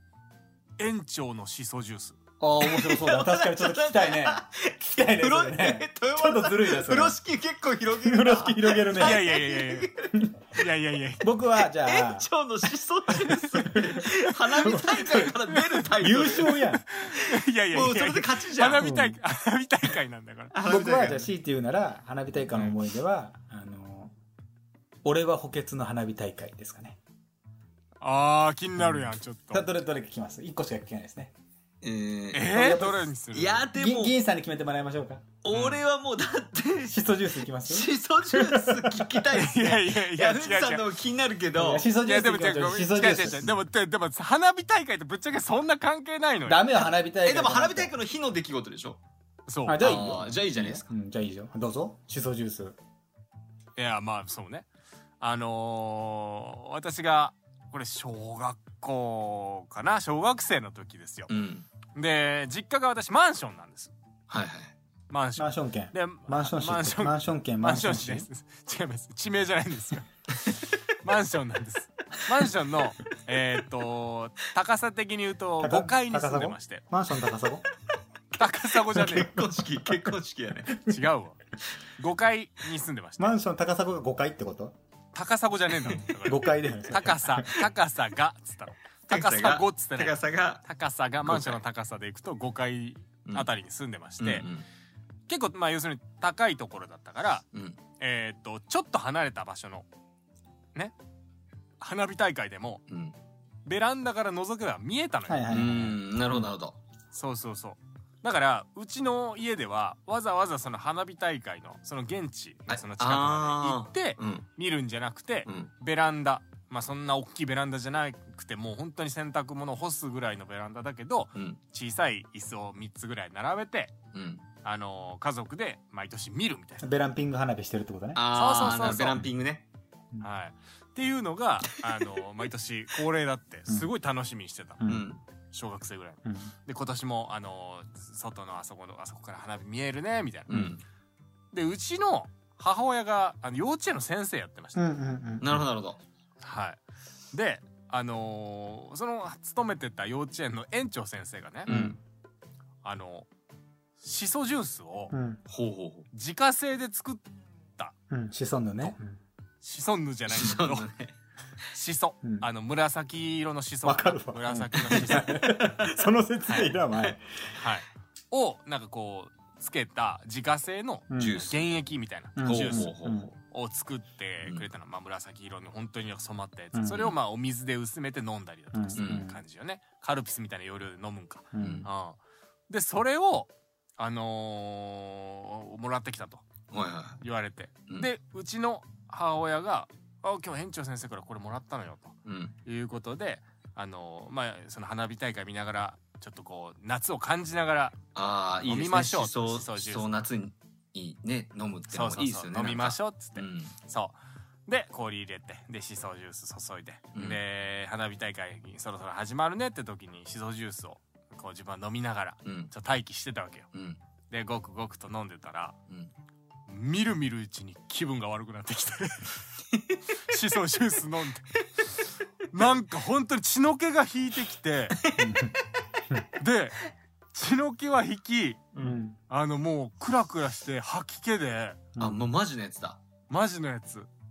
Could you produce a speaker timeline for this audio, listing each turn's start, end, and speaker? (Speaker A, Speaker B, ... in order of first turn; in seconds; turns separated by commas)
Speaker A: 0.8-2.2, Speaker B: 2.4-7.2, Speaker C: 2.6-10.2, Speaker B: 8.0-9.3, Speaker A: 9.0-9.9, Speaker A: 10.5-11.3, Speaker B: 11.2-12.3, Speaker C: 11.8-16.6, Speaker B: 13.3-15.3, Speaker B: 16.0-16.9, Speaker A: 16.9-20.5, Speaker C: 17.2-18.9, Speaker B: 18.8-19.2, Speaker C: 20.5-21.3, Speaker B: 20.6-24.1, Speaker B: 25.0-27.0, Speaker A: 28.0-29.6, Speaker B: 28.8-31.3, Speaker C: 31.8-32.5, Speaker A: 32.3-33.7, Speaker B: 32.5-33.1, Speaker C: 33.3-34.1, Speaker B: 33.7-35.3, Speaker C: 35.4-37.0, Speaker A: 35.5-35.8, Speaker B: 36.9-39.3, Speaker C: 37.6-41.9, Speaker A: 39.3-40.9, Speaker B: 41.5-43.5, Speaker A: 42.0-46.7, Speaker B: 46.5-47.9, Speaker C: 47.2-49.0, Speaker A: 49.5-50.1, Speaker B: 49.7-52.8, Speaker C: 49.8-50.9, Speaker A: 53.8-54.7, Speaker A: 55.2-61.3, Speaker C: 61.3-61.7, Speaker A: 61.9-63.9, Speaker C: 64.3-64.7, Speaker A: 65.1-76.8, Speaker B: 65.4-68.3, Speaker B: 75.6-77.7, Speaker A: 78.4-79.3, Speaker C: 78.9-80.8, Speaker A: 80.8-81.4, Speaker A: 82.0-83.3, Speaker B: 83.2-84.8, Speaker A: 85.1-94.5, Speaker B: 86.2-87.6, Speaker C: 89.1-90.6, Speaker C: 91.2-91.6, Speaker C: 94.2-94.7, Speaker A: 95.3-97.5, Speaker C: 97.5-97.8, Speaker A: 98.0-99.9, Speaker A: 101.8-102.8, Speaker C: 102.9-103.2, Speaker A: 103.7-105.6, Speaker B: 105.3-106.0, Speaker C: 105.5-106.8, Speaker A: 107.1-123.9, Speaker C: 112.7-114.5, Speaker C: 124.1-124.5, Speaker A: 124.6-126.9, Speaker B: 126.8-128.2, Speaker C: 128.2-129.7, Speaker A: 128.3-129.3, Speaker A: 130.2-134.8, Speaker B: 134.8-135.1, Speaker C: 134.9-135.2, Speaker A: 135.5-140.6, Speaker B: 136.2-136.5, Speaker C: 140.5-140.8, Speaker A: 141.5-144.8, Speaker B: 144.8-145.6, Speaker C: 145.4-146.0, Speaker A: 146.4-146.8, Speaker A: 147.3-151.7, Speaker C: 151.7-152.0, Speaker B: 151.7-152.0, Speaker A: 152.8-153.3, Speaker A: 154.0-155.1, Speaker B: 155.1-155.4, Speaker C: 155.5-156.1, Speaker A: 156.1-157.3, Speaker B: 158.1-159.2, Speaker A: 159.6-160.9, Speaker C: 160.3-161.1, Speaker A: 161.7-165.4, Speaker B: 163.8-167.6, Speaker A: 166.5-166.7, Speaker A: 167.6-186.5, Speaker B: 171.1-171.5, Speaker C: 171.2-171.7, Speaker B: 172.4-173.3, Speaker C: 172.4-173.3, Speaker B: 176.7-177.1, Speaker B: 178.7-179.4, Speaker C: 179.0-179.2, Speaker B: 181.5-181.9, Speaker C: 181.6-181.9, Speaker C: 186.7-187.2, Speaker A: 187.2-198.0, Speaker C: 192.3-192.6, Speaker C: 198.2-203.7, Speaker A: 198.7-200.1, Speaker A: 201.9-213.7, Speaker C: 207.1-207.4, Speaker C: 212.4-212.7, Speaker C: 213.7-214.0, Speaker A: 214.3-215.8, Speaker A: 216.7-219.5, Speaker A: 220.3-221.6, Speaker A: 222.5-225.0, Speaker C: 225.0-225.3, Speaker B: 225.2-225.6, Speaker A: 226.4-226.8, Speaker A: 227.3-228.8, Speaker B: 228.8-229.2, Speaker A: 229.3-231.8, Speaker B: 232.0-232.2, Speaker C: 232.0-233.0, Speaker A: 233.3-234.1